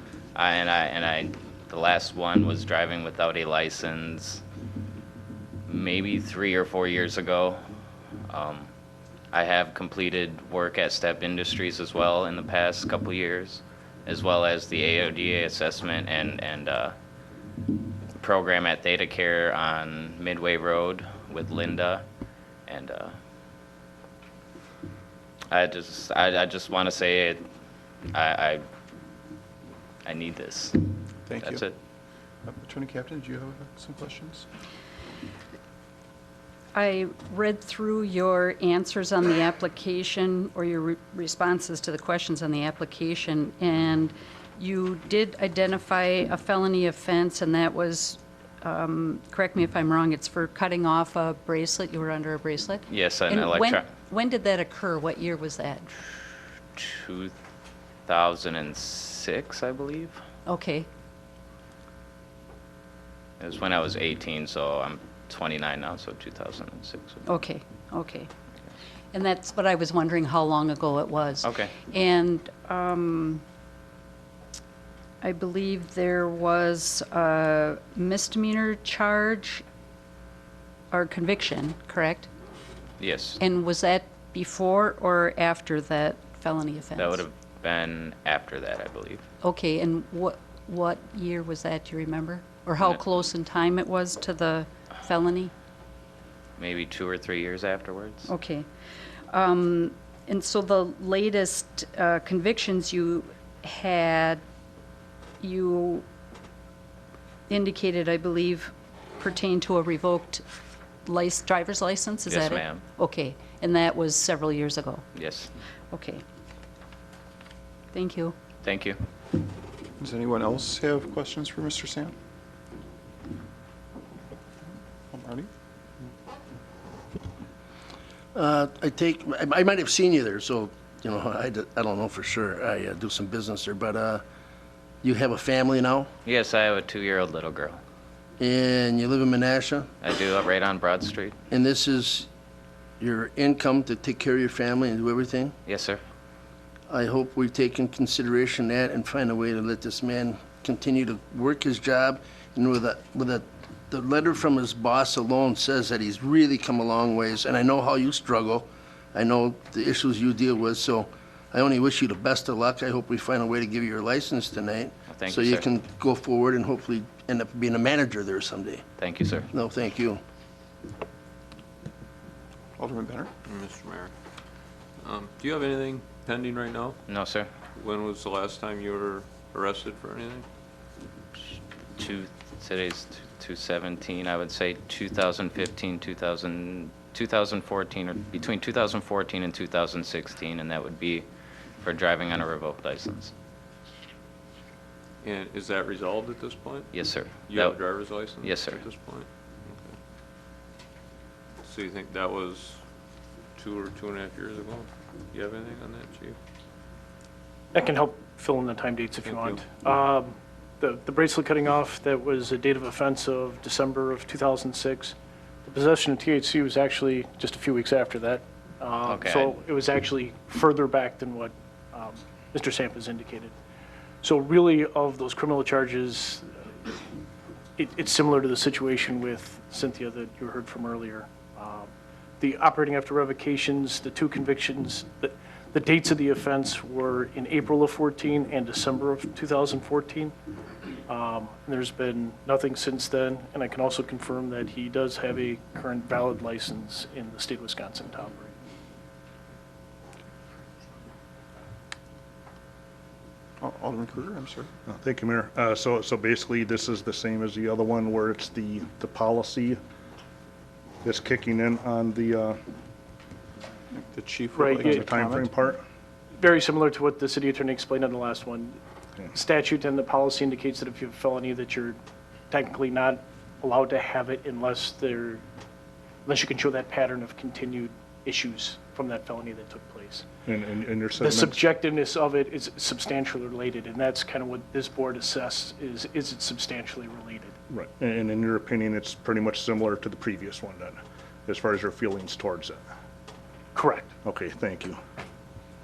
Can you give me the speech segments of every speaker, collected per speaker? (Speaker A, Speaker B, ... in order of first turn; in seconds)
Speaker A: 0.3-4.4, 5.7-7.6, 8.3-8.7, 9.3-16.9, 18.2-22.0, 22.7-23.2, 25.5-27.4, 28.1-28.6, 30.1-30.8, 31.4-31.8, 52.9-53.9, 56.8-57.4, 58.1-60.2, 63.4-67.2, 71.4-71.8, 83.0-83.4, 87.0-89.2, 96.6-98.3, 112.3-112.8, 115.1-115.5, 118.6-119.0, 136.2-137.8, 140.0-141.3, 145.7-146.0, 165.1-165.7, 169.0-169.5, 177.1-177.5, 182.0-191.2, 191.8-193.3, 196.9-197.8, 198.3-198.8, 219.0-219.6
Speaker B: 31.3-31.6, 32.5-34.5, 120.0-122.1, 125.1-125.5, 172.8-173.3, 253.6-254.7, 263.9-265.5
Speaker C: 36.7-55.9, 60.5-60.9, 67.2-68.3, 69.1-73.4, 75.2-79.6, 80.9-82.3, 83.4-87.2, 89.4-95.5, 98.3-98.7, 99.3-104.4, 105.4-106.0, 107.5-110.4, 111.0-115.0, 115.9-116.2, 117.9-118.3
Speaker D: 128.3-134.2, 135.0-136.1, 138.4-139.9, 141.5-142.3, 143.0-145.6, 146.9-168.8, 169.5-170.2
Speaker E: 173.5-174.1, 175.0-177.0, 177.8-180.5, 195.2-196.9, 197.5-199.9, 201.6-202.8, 203.6-206.4, 209.2-209.6
Speaker F: 207.7-223.5, 224.2-226.9, 227.8-240.3, 241.1-248.5, 264.5-265.0, 266.3-268.8, 269.3-272.0, 272.5-275.4, 276.2-280.3, 281.2-287.5, 293.7-294.1
Speaker G: 254.9-259.8, 261.0-262.6, 264.7-265.8, 280.4-281.6, 287.7-292.8, 294.2-295.0